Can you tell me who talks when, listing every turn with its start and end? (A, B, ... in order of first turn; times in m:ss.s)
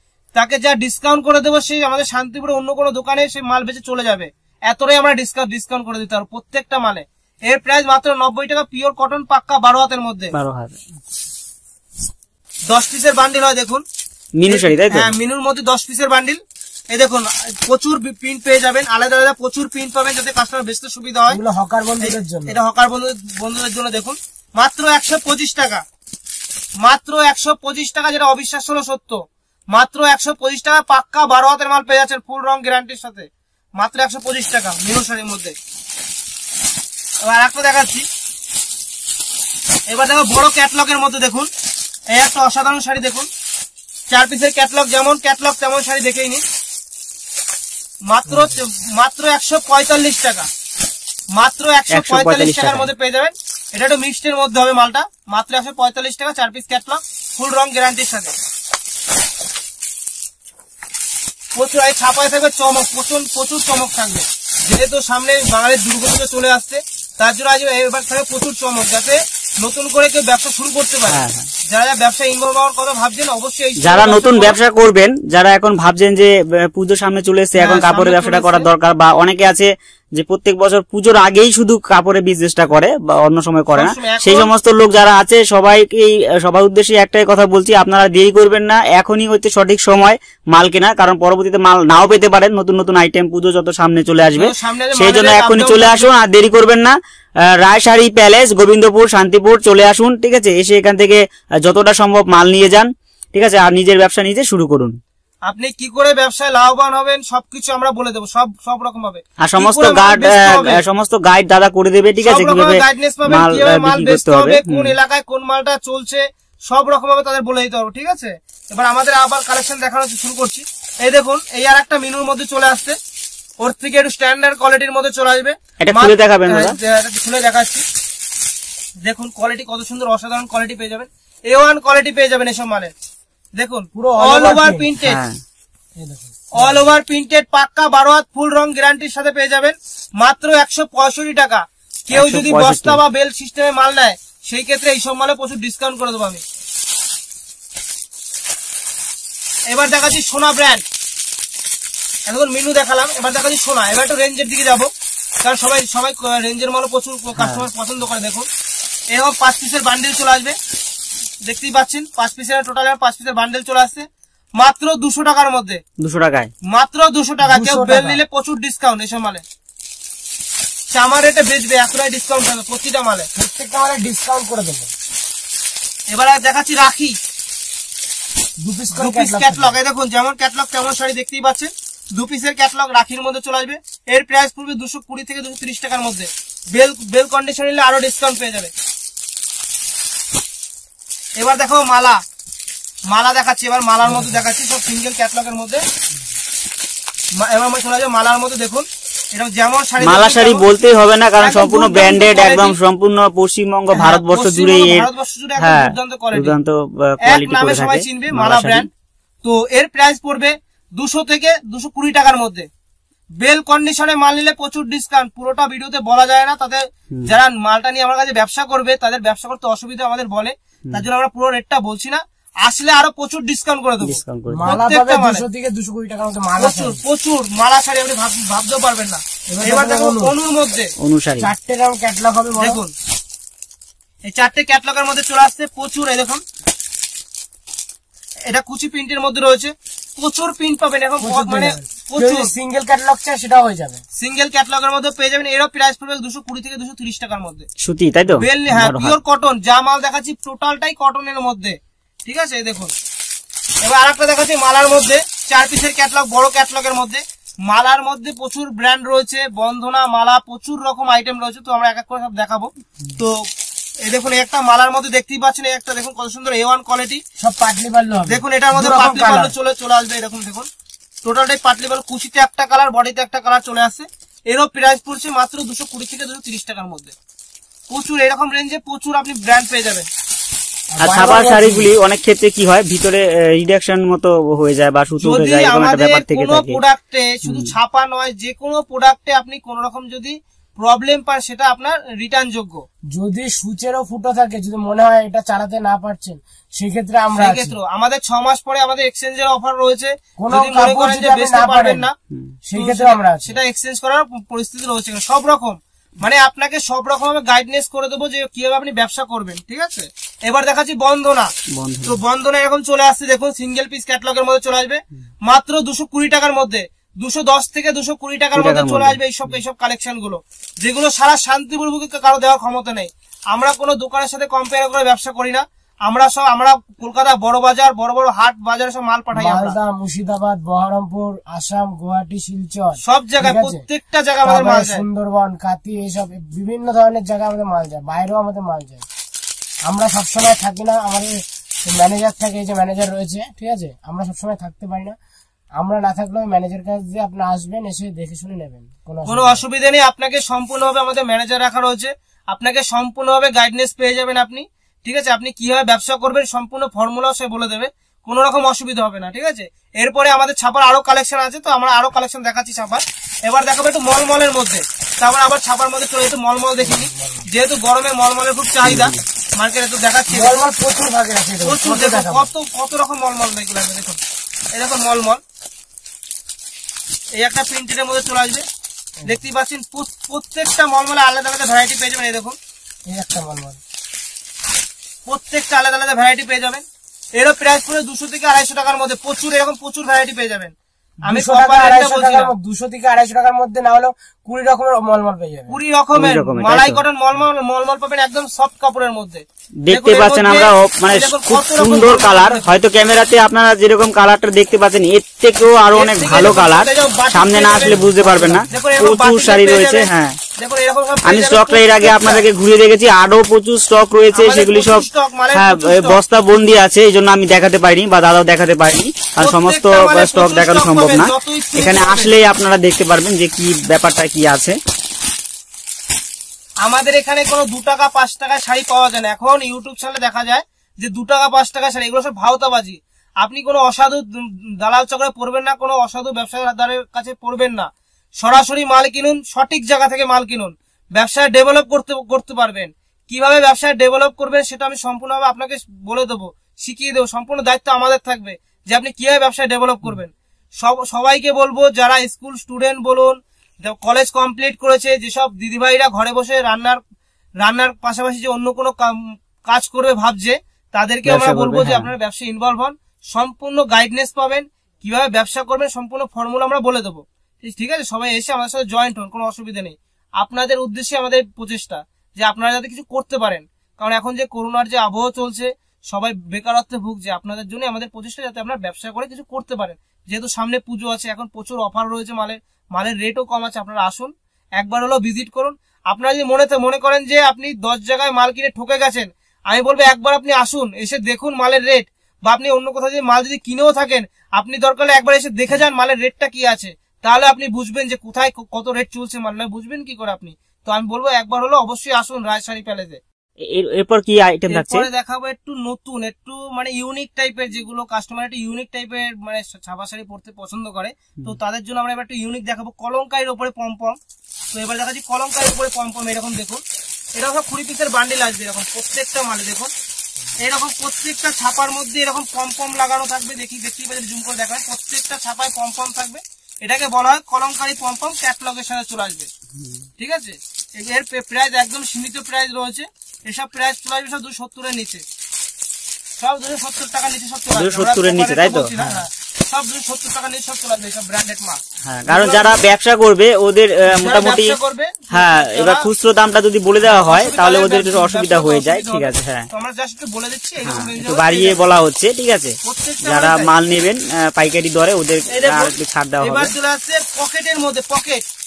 0:00.3-0:10.3 A
0:10.3-0:10.7 B
0:12.7-0:13.8 A
0:14.4-0:15.1 B
0:14.4-0:21.4 A
0:21.3-0:22.6 C
0:22.0-0:25.8 A
0:26.8-0:35.5 A
0:37.2-0:38.0 A
0:39.9-0:41.5 A
0:42.1-0:43.3 A
0:44.1-0:46.4 A
0:48.0-0:50.5 A
0:51.3-0:58.3 A
0:51.9-0:52.9 B
1:01.6-1:14.6 A
1:11.1-1:11.5 B
1:13.8-1:45.0 B
1:17.5-1:18.7 A
1:23.7-1:24.5 A
1:34.3-1:36.1 A
1:45.4-1:50.8 A
1:49.4-1:55.0 B
1:52.2-2:03.0 A
2:03.6-2:07.8 A
2:05.8-2:06.8 B
2:09.0-2:12.9 A
2:13.6-2:15.2 A
2:13.9-2:14.9 C
2:15.0-2:15.4 B
2:16.0-2:16.9 C
2:16.5-2:26.4 A
2:22.1-2:23.0 B
2:29.7-2:30.8 A
2:32.3-2:34.9 A
2:35.4-2:38.5 A
2:37.4-2:37.6 B
2:39.1-2:40.6 A
2:41.4-2:44.0 A
2:44.6-2:45.8 A
2:46.0-2:46.5 B
2:46.7-2:49.4 A
2:47.4-2:48.2 C
2:50.9-2:53.3 A
2:53.3-2:54.9 C
2:56.1-2:57.2 A
2:58.6-2:59.8 C
2:58.9-3:08.7 A
3:11.4-3:12.2 A
3:13.1-3:15.8 A
3:17.4-3:20.6 A
3:20.0-3:28.9 B
3:21.4-3:22.8 A
3:23.9-3:26.6 A
3:27.2-3:28.9 A
3:29.4-3:32.7 A
3:33.4-3:45.4 A
3:44.0-3:44.8 B
3:44.5-3:47.0 C
3:46.6-3:50.9 A
3:49.5-3:50.4 C
3:51.0-3:51.5 B
3:51.4-3:52.8 C
3:52.6-3:52.9 A
3:54.3-3:56.4 A
3:58.4-4:02.5 A
4:01.2-4:04.0 C
4:04.2-4:07.7 A
4:07.8-4:09.2 B
4:08.3-4:12.9 A
4:13.8-4:23.4 A
4:24.0-4:27.2 A
4:27.4-4:29.5 C
4:28.3-4:30.7 A
4:31.2-4:37.1 A
4:37.9-4:40.1 A
4:40.9-4:41.9 C
4:41.0-4:46.8 B
4:45.2-4:52.8 A
4:47.4-4:47.7 B
4:53.1-4:57.8 C
4:57.3-5:02.1 A
5:00.4-5:02.1 C
5:02.6-5:03.6 C
5:02.7-5:11.5 A
5:11.7-5:12.2 B
5:12.0-5:29.8 A
5:18.5-5:19.6 B
5:29.3-5:33.8 C
5:33.0-5:35.0 A
5:34.4-5:39.0 C
5:39.8-5:45.2 C
5:45.8-5:49.6 C
5:49.2-6:10.6 A
6:06.8-6:07.4 C
6:08.8-6:09.2 B
6:10.3-6:12.5 C
6:11.6-6:14.2 A
6:14.8-6:15.4 A
6:17.4-6:18.6 A
6:19.2-6:22.6 A
6:23.1-6:23.8 C
6:25.2-6:26.8 A
6:27.4-6:30.7 A
6:31.3-6:32.5 A
6:31.3-6:35.8 C
6:35.7-6:42.7 A
6:36.1-6:37.0 B
6:39.8-6:50.4 B
6:45.9-6:52.5 A
6:48.1-6:48.5 C
6:51.2-7:04.8 B
6:54.3-6:56.2 A
6:59.4-7:02.3 A
7:06.8-7:37.0 A
7:37.6-8:23.2 A
7:41.2-7:42.1 B
8:23.7-8:25.1 B
8:24.7-8:34.2 A
8:34.7-8:36.8 A
8:37.4-8:39.9 A
8:40.6-8:49.5 A
8:49.8-8:50.0 B
8:50.2-8:55.2 A
8:56.4-9:02.8 A
8:57.7-8:59.2 B
9:02.0-9:04.8 B
9:04.1-9:06.0 A
9:05.3-9:09.7 B
9:07.0-9:11.8 A
9:10.8-9:16.7 B
9:12.8-9:13.7 A
9:15.5-9:18.4 A